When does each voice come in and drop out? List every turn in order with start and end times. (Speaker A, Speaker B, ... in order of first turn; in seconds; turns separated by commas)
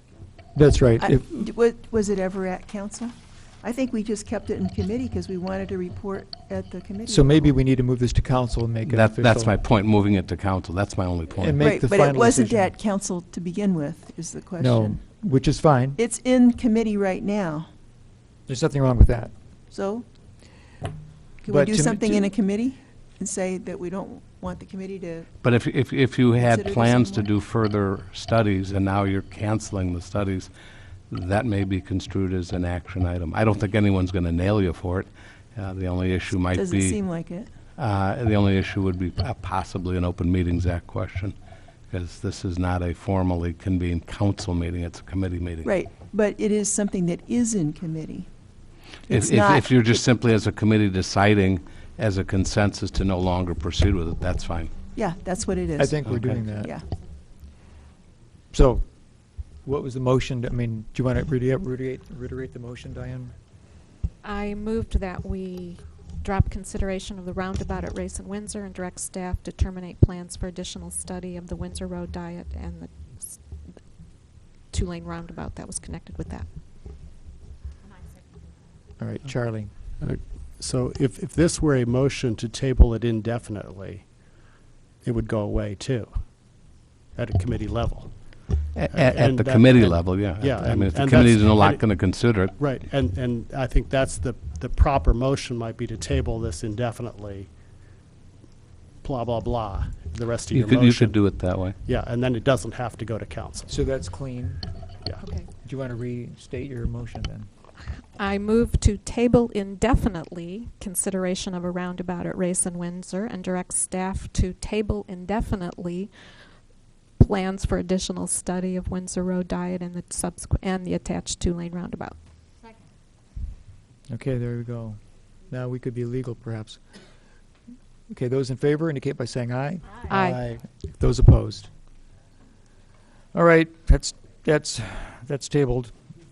Speaker A: 0.5-1.3, Speaker B: 1.0-7.5, Speaker A: 7.1-9.6, Speaker C: 8.9-11.7, Speaker A: 11.4-12.7, Speaker B: 11.6-15.0, Speaker A: 14.6-16.0, Speaker B: 15.9-17.7, Speaker A: 18.5-19.3, Speaker B: 19.7-20.1, Speaker B: 21.4-25.3, Speaker A: 21.4-22.3, Speaker C: 25.4-30.5, Speaker B: 26.4-27.3, Speaker C: 31.1-37.0, Speaker B: 36.5-37.5, Speaker C: 37.8-41.3, Speaker C: 41.9-45.7, Speaker B: 45.6-48.3, Speaker B: 49.1-49.7, Speaker C: 49.1-54.7, Speaker B: 54.9-56.8, Speaker A: 55.8-56.7, Speaker C: 56.0-56.4, Speaker A: 58.5-63.3, Speaker D: 64.2-73.7, Speaker D: 74.5-76.5, Speaker A: 79.0-79.7, Speaker E: 80.0-84.4, Speaker E: 85.0-86.5, Speaker E: 87.1-88.4, Speaker C: 88.7-92.5, Speaker E: 88.9-97.5, Speaker E: 99.0-103.7, Speaker C: 100.5-101.8, Speaker A: 103.7-104.7, Speaker D: 105.2-105.5, Speaker A: 105.6-107.5, Speaker D: 108.2-116.1, Speaker D: 117.2-122.2, Speaker A: 124.1-126.8, Speaker A: 128.1-131.7, Speaker D: 130.1-130.4, Speaker A: 133.3-136.0